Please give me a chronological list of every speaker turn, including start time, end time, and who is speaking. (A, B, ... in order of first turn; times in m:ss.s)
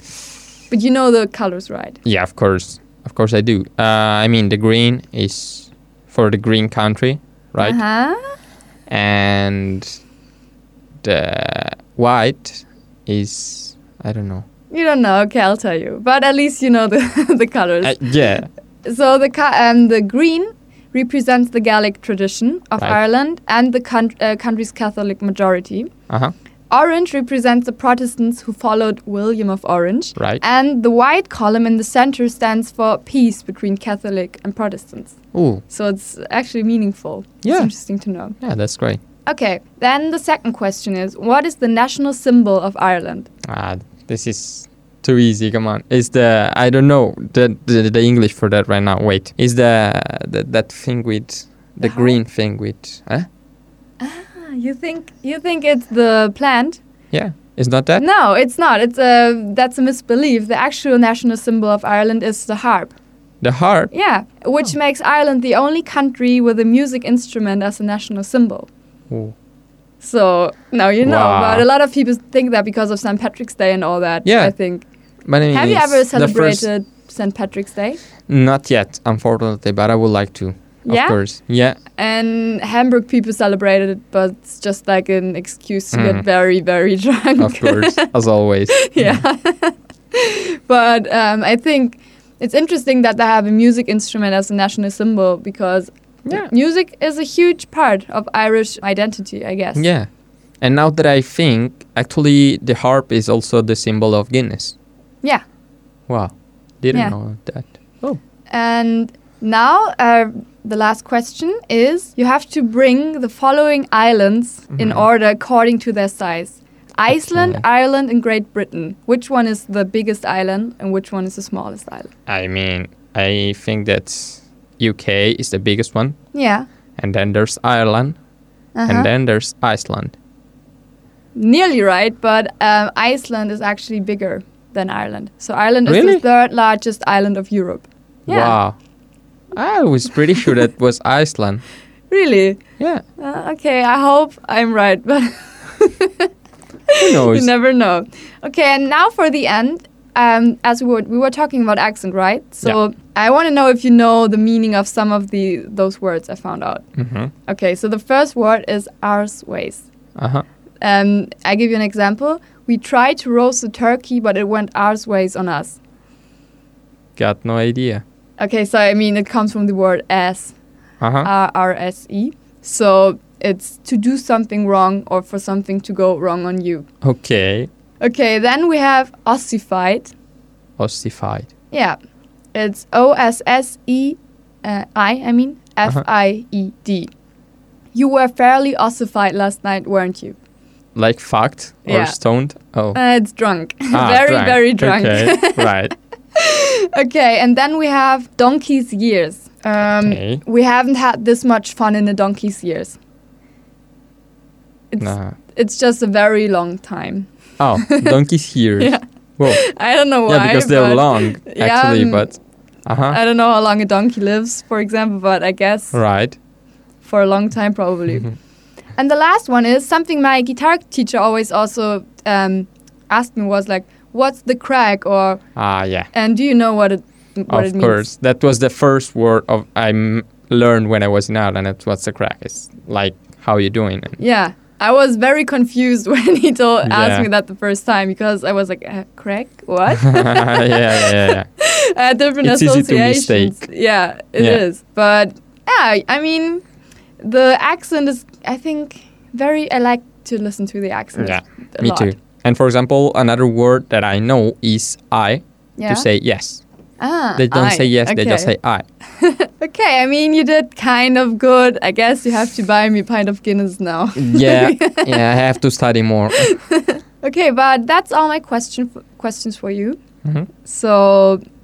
0:00.7-0:02.0 A
0:02.0-0:07.8 B
0:07.6-0:08.3 A
0:08.9-0:10.0 B
0:11.0-0:14.4 B
0:14.7-0:18.3 A
0:17.8-0:18.5 B
0:18.8-0:25.9 A
0:26.1-0:26.3 B
0:26.7-0:38.4 A
0:30.2-0:30.4 B
0:35.3-0:35.6 B
0:37.4-0:39.0 B
0:39.2-0:43.3 A
0:43.4-0:53.3 B
0:51.8-0:52.2 A
0:54.0-0:56.8 A
0:57.1-0:58.0 B
0:58.0-1:02.9 A
1:03.4-1:03.9 B
1:03.9-1:08.7 A
1:09.1-1:09.3 B
1:10.0-1:14.8 A
1:11.0-1:11.6 B
1:14.2-1:14.6 B
1:15.2-1:16.7 B
1:15.5-1:18.0 A
1:18.3-1:21.8 B
1:20.8-1:28.1 A
1:25.9-1:26.2 B
1:27.4-1:29.2 B
1:28.7-1:39.9 A
1:36.2-1:36.5 B
1:39.7-1:40.1 B
1:40.6-1:44.7 B
1:46.1-1:48.2 B
1:46.9-1:47.2 A
1:48.5-2:02.1 A
1:54.7-1:55.0 B
1:57.1-1:57.6 B
2:02.3-2:06.3 B
2:06.3-2:06.7 A
2:07.0-2:08.2 B
2:08.7-2:09.1 A
2:08.8-2:10.1 B
2:11.3-2:18.6 A
2:15.8-2:16.2 B
2:18.3-2:18.8 B
2:19.5-2:21.6 B
2:22.1-2:26.3 A
2:26.9-2:39.9 A
2:27.0-2:27.5 B
2:37.0-2:37.3 B
2:40.2-2:40.4 B
2:40.8-2:45.8 A
2:47.2-2:48.0 B
2:48.4-2:50.6 A
2:51.0-2:51.3 B
2:51.2-2:56.9 A
2:57.0-2:57.7 B
2:58.0-3:00.1 A
3:00.8-3:01.5 B
3:01.7-3:02.0 A
3:02.5-3:07.1 A
3:07.9-3:10.4 A
3:10.9-3:13.0 B
3:11.8-3:12.2 A
3:12.9-3:15.7 A
3:13.9-3:15.9 B
3:16.4-3:23.0 A
3:20.0-3:20.4 B
3:24.9-3:28.2 A
3:25.0-3:25.4 B
3:27.6-3:29.7 B
3:28.8-3:32.4 A
3:30.2-3:33.2 B
3:33.1-3:36.0 A
3:35.9-3:36.4 B
3:37.0-3:38.4 A
3:39.0-3:45.4 A
3:45.6-3:46.1 B
3:46.1-3:48.1 A
3:47.5-3:54.2 B
3:54.2-4:06.6 A
3:56.8-3:57.3 B
4:00.1-4:01.5 B
4:02.4-4:03.7 B
4:07.2-4:12.1 A
4:11.2-4:16.6 B
4:15.8-4:16.1 A
4:17.0-4:25.2 A
4:17.4-4:18.8 B
4:24.2-4:26.6 B
4:26.4-4:30.0 A
4:30.6-4:31.4 A